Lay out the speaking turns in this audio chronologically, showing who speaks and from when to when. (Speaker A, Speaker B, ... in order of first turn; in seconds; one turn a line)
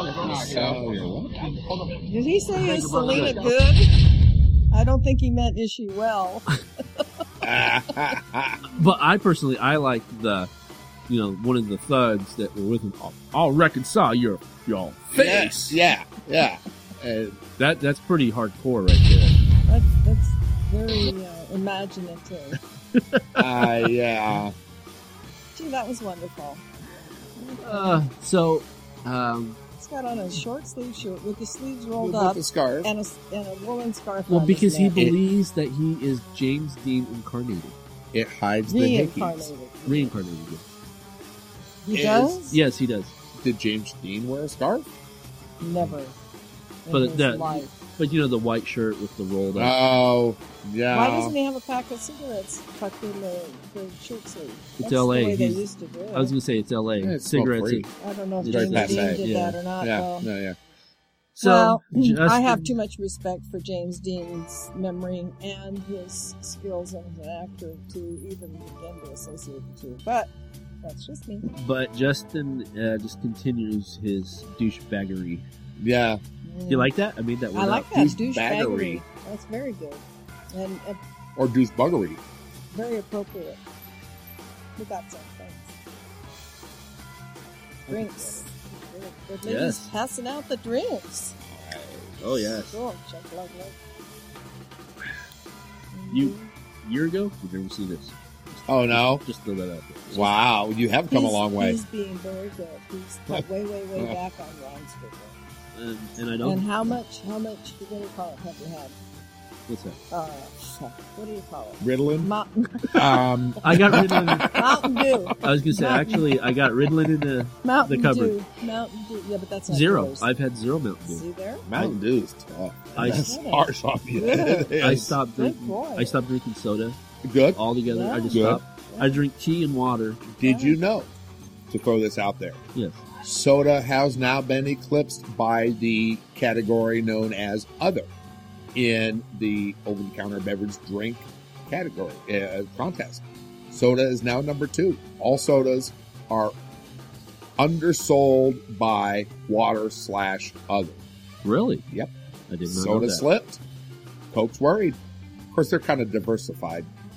Speaker A: 0.2-1.4
Speaker B: 2.0-3.9
Speaker B: 4.7-6.5
Speaker A: 7.4-8.7
Speaker C: 8.7-10.5
Speaker C: 11.1-15.8
Speaker A: 15.1-17.4
Speaker C: 17.6-19.4
Speaker B: 19.7-22.6
Speaker C: 22.9-23.5
Speaker A: 23.4-24.5
Speaker B: 25.6-26.6
Speaker B: 27.4-28.0
Speaker C: 27.6-29.6
Speaker B: 29.8-35.0
Speaker A: 32.0-32.9
Speaker C: 34.3-37.8
Speaker A: 38.1-39.5
Speaker B: 38.7-40.1
Speaker C: 39.9-40.7
Speaker B: 41.8-42.6
Speaker A: 41.9-42.4
Speaker C: 42.5-43.1
Speaker A: 43.4-44.9
Speaker B: 45.6-46.1
Speaker B: 46.9-47.7
Speaker C: 46.9-49.8
Speaker A: 49.5-51.3
Speaker B: 50.9-56.3
Speaker C: 54.8-55.6
Speaker C: 56.1-59.6
Speaker A: 57.0-57.9
Speaker B: 58.0-60.3
Speaker A: 58.4-59.2
Speaker A: 59.8-60.6
Speaker C: 61.4-62.7
Speaker B: 61.4-70.3
Speaker B: 70.8-71.5
Speaker C: 71.5-75.5
Speaker A: 75.8-76.2
Speaker B: 76.4-76.9
Speaker C: 76.7-77.9
Speaker B: 77.5-81.0
Speaker A: 77.9-79.0
Speaker A: 81.4-82.2
Speaker B: 82.7-83.6
Speaker B: 84.8-85.8
Speaker A: 87.9-88.4
Speaker B: 87.9-91.4
Speaker C: 89.4-89.9
Speaker A: 91.5-92.6
Speaker C: 92.2-92.8
Speaker B: 92.7-93.8
Speaker B: 95.9-96.5
Speaker C: 96.1-100.2
Speaker A: 98.7-99.2
Speaker A: 100.1-101.8
Speaker B: 101.1-105.4
Speaker C: 105.8-106.7
Speaker B: 106.4-109.0
Speaker C: 109.7-110.0
Speaker B: 110.1-113.0
Speaker A: 111.8-112.3
Speaker A: 112.9-115.3
Speaker C: 113.6-114.7
Speaker B: 114.5-116.4
Speaker C: 115.4-118.3
Speaker B: 117.6-120.3
Speaker C: 119.7-122.0
Speaker B: 121.1-121.7
Speaker A: 121.7-125.2
Speaker C: 123.0-123.3
Speaker B: 123.0-124.7
Speaker C: 124.8-127.0
Speaker B: 125.4-126.2
Speaker A: 127.2-127.6
Speaker C: 127.5-130.2
Speaker B: 127.9-129.2
Speaker A: 128.3-128.6
Speaker A: 130.3-131.1
Speaker B: 130.4-130.8
Speaker A: 131.7-132.6
Speaker C: 132.8-133.0
Speaker A: 133.2-138.1
Speaker A: 138.8-146.6
Speaker A: 147.6-151.0
Speaker C: 151.4-151.8
Speaker C: 152.5-153.2
Speaker A: 152.7-153.6
Speaker A: 154.3-155.0
Speaker A: 155.5-156.9